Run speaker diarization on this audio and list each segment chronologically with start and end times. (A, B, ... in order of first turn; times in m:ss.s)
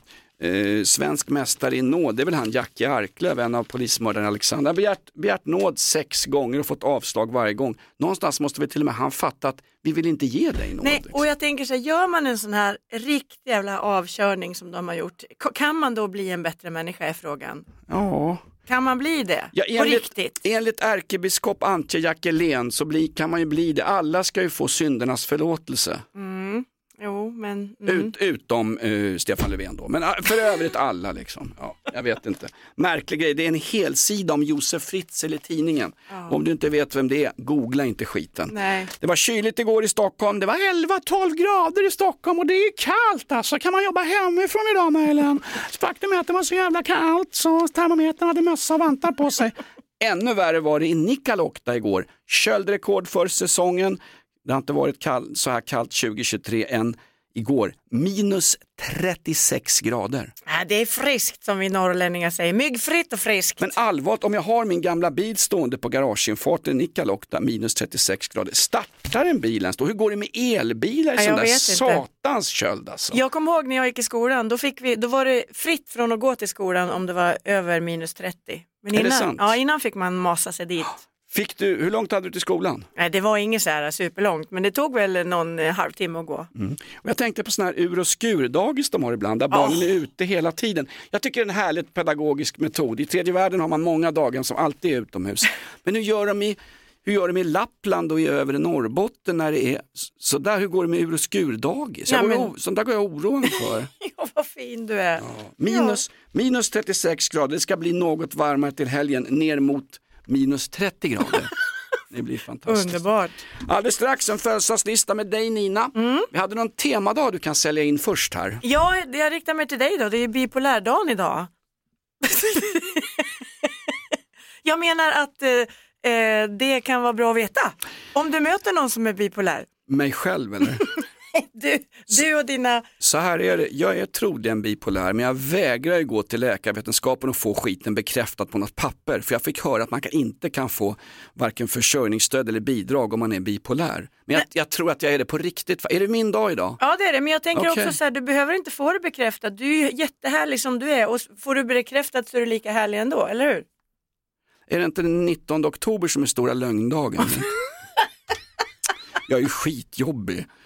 0:00.4-0:11.2 A
0:10.8-0:17.6 B
0:17.9-0:18.4 A
0:18.7-0:20.3 B
0:19.5-0:26.0 A
0:26.1-0:28.1 B
0:27.8-1:00.3 A
0:38.5-0:38.9 B
1:00.5-1:03.7 B
1:03.6-1:13.2 A
1:11.2-1:12.0 B
1:13.1-1:21.0 B
1:18.9-1:19.6 A
1:21.3-1:22.9 A
1:23.0-1:26.5 B
1:26.5-1:43.9 A
1:29.5-1:29.8 B
1:42.1-1:42.5 B
1:43.5-1:46.0 B
1:45.2-1:51.5 A
1:52.1-1:53.0 A
1:52.7-1:53.4 B
1:53.6-1:58.6 A
1:55.9-1:56.3 B
1:58.6-2:01.5 B
2:02.2-2:03.2 B
2:04.6-2:09.7 B
2:09.9-2:10.8 A
2:11.3-2:12.8 B
2:13.0-2:26.8 A
2:26.8-2:33.6 B
2:27.5-2:27.9 A
2:34.7-2:37.5 A
2:39.3-2:40.4 A